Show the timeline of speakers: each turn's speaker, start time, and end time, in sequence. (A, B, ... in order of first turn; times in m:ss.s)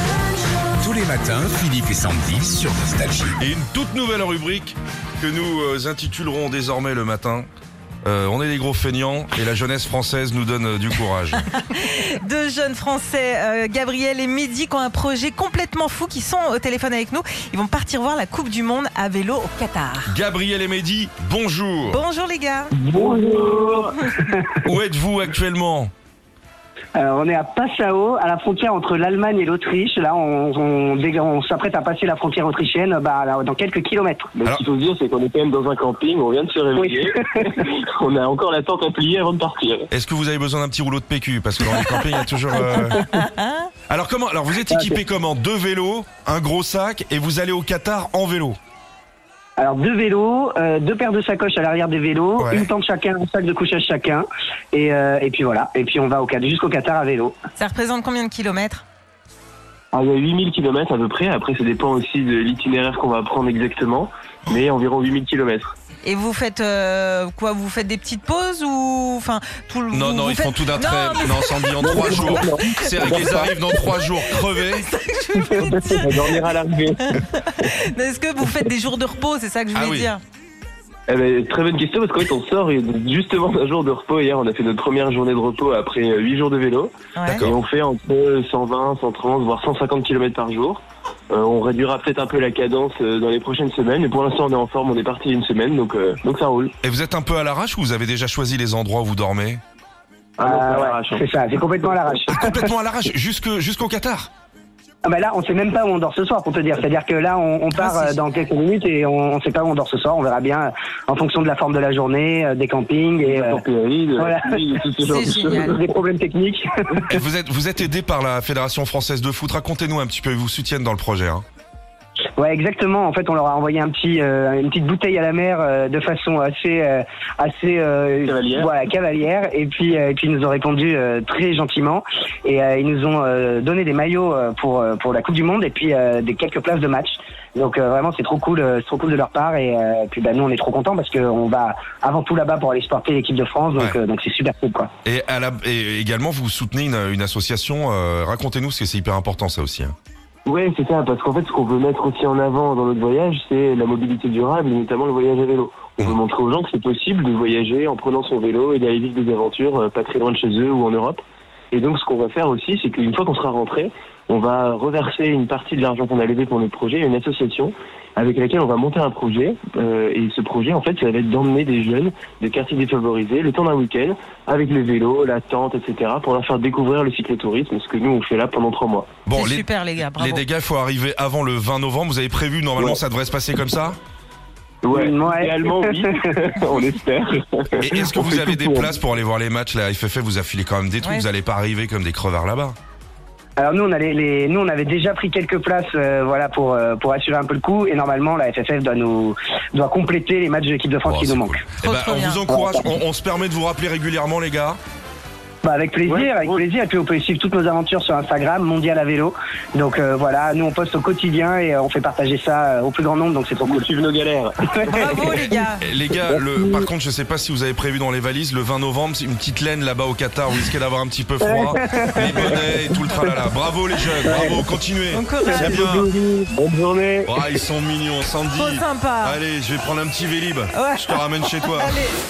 0:00.8-0:03.4 A
0:03.4-0:07.5 B
0:08.0-0:11.4 B
0:11.4-0:20.1 C
0:20.1-0:22.0 B
0:21.9-0:22.7 C
0:22.8-0:24.0 D
0:22.9-0:24.4 E
0:24.6-0:25.9 B
0:27.0-0:34.3 E
0:34.4-0:39.9 D
0:36.8-0:37.6 E
0:39.9-0:43.0 B
0:42.6-0:43.7 C
0:43.9-0:48.6 B
0:49.6-0:57.4 E
0:52.4-0:52.7 B
0:57.6-0:58.8 C
0:59.9-1:05.7 D
1:06.0-1:13.2 C
1:09.9-1:14.8 B
1:11.8-1:13.5 D
1:13.8-1:16.4 C
1:15.5-1:17.2 D
1:17.0-1:20.2 C
1:19.7-1:20.1 B
1:21.1-1:36.7 D
1:27.2-1:27.5 C
1:27.2-1:27.6 B
1:36.8-1:39.6 B
1:40.4-1:41.2 D
1:40.4-1:42.6 E
1:42.3-1:44.3 B
1:45.0-1:53.6 E
1:47.7-1:48.2 C
1:53.2-1:55.8 D
1:54.2-1:54.6 E
1:55.0-1:55.7 C
1:55.6-1:57.1 E
1:57.1-2:01.4 B
2:02.4-2:24.9 E
2:08.2-2:08.7 D
2:25.0-2:29.9 B
2:30.5-2:59.2 D
2:59.3-3:04.0 B
2:59.3-3:00.4 C
3:04.8-3:08.9 D
3:04.9-3:06.0 E
3:07.8-3:12.8 B
3:13.6-3:21.6 E
3:21.0-3:24.8 B
3:21.8-3:22.4 C
3:22.5-3:22.9 E
3:25.6-3:33.9 E
3:26.1-3:26.6 D
3:33.6-3:35.6 D
3:34.7-3:35.5 E
3:34.9-3:35.8 C
3:35.8-3:46.1 B
3:41.5-3:42.6 E
3:44.3-3:44.6 D
3:45.1-3:45.8 C
3:45.4-3:47.4 D
3:47.3-3:52.0 B
3:48.5-3:49.4 C
3:50.7-3:52.2 C